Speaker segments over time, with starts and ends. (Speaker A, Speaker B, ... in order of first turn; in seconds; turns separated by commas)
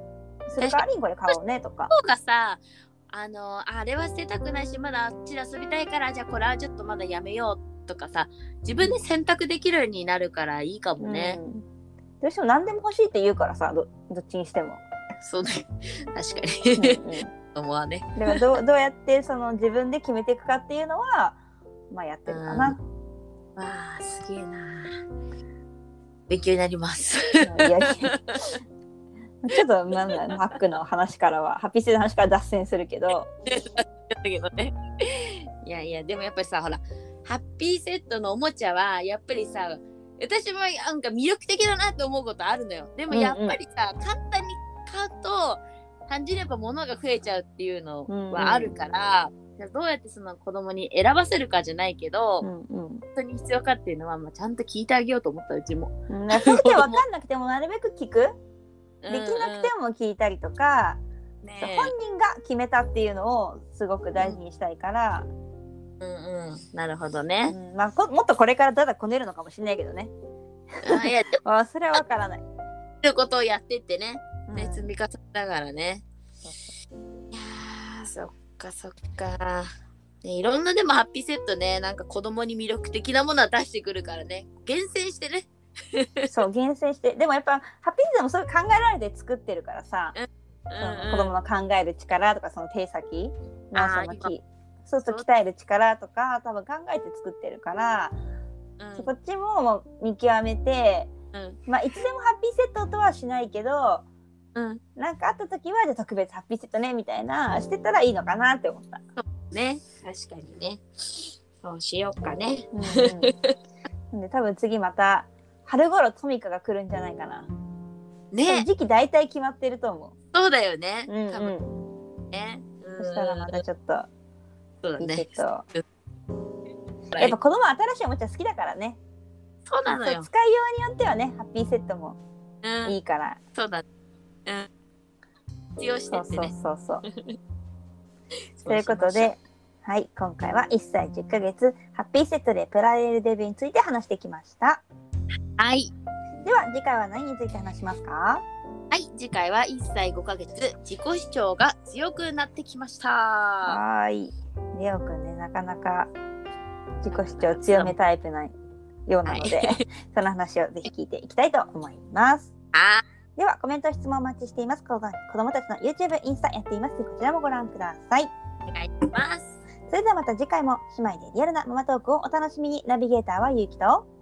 Speaker A: 0.5-1.9, Speaker B: 0.6-1.3, Speaker B: 1.9-11.4, Speaker A: 11.0-11.6, Speaker A: 12.2-14.8, Speaker B: 15.2-17.0, Speaker A: 16.8-17.3, Speaker B: 17.6-18.5, Speaker A: 18.2-21.4, Speaker A: 21.9-22.8, Speaker B: 22.3-22.8, Speaker B: 23.6-25.0, Speaker B: 26.3-28.5, Speaker A: 27.4-28.2, Speaker A: 29.4-33.3, Speaker B: 33.5-52.5, Speaker A: 43.1-43.6, Speaker A: 48.1-48.8, Speaker A: 52.4-53.0, Speaker B: 53.2-57.0, Speaker A: 56.1-58.3, Speaker B: 59.0-59.7, Speaker A: 59.1-61.0, Speaker B: 61.4-61.9, Speaker A: 61.6-65.3, Speaker B: 66.0-67.5, Speaker A: 67.5-70.1, Speaker A: 70.8-72.4, Speaker B: 70.8-71.4, Speaker B: 73.0-76.0, Speaker A: 74.5-74.9, Speaker B: 77.3-79.7, Speaker B: 80.2-86.3, Speaker A: 86.3-90.2, Speaker B: 90.2-91.3, Speaker A: 90.8-98.2, Speaker B: 93.8-94.3, Speaker B: 98.8-99.1, Speaker A: 99.0-101.1, Speaker B: 101.3-101.6, Speaker A: 101.7-104.0, Speaker B: 104.5-104.8, Speaker A: 105.0-109.0, Speaker B: 109.2-113.5, Speaker A: 112.8-113.3, Speaker A: 114.1-117.5, Speaker B: 118.3-118.7, Speaker A: 118.4-120.2, Speaker B: 120.3-121.6, Speaker A: 121.1-121.7, Speaker B: 122.3-123.6, Speaker A: 123.0-124.1, Speaker B: 124.8-125.8, Speaker A: 125.0-125.6, Speaker A: 127.2-129.0, Speaker B: 129.7-130.3, Speaker A: 129.9-132.2, Speaker B: 132.6-132.9, Speaker A: 132.8-133.4, Speaker B: 133.6-133.8, Speaker B: 135.8-136.5, Speaker A: 136.1-137.1, Speaker B: 137.1-137.4, Speaker B: 138.6-139.3, Speaker A: 138.7-144.8, Speaker B: 145.6-145.9, Speaker A: 146.4-148.4, Speaker B: 148.9-153.8, Speaker A: 153.7-156.1, Speaker A: 157.0-158.5, Speaker B: 157.1-157.9, Speaker A: 159.1-162.5, Speaker B: 159.3-159.8, Speaker B: 162.7-163.0, Speaker A: 163.4-168.3, Speaker B: 168.7-169.6, Speaker A: 169.9-174.1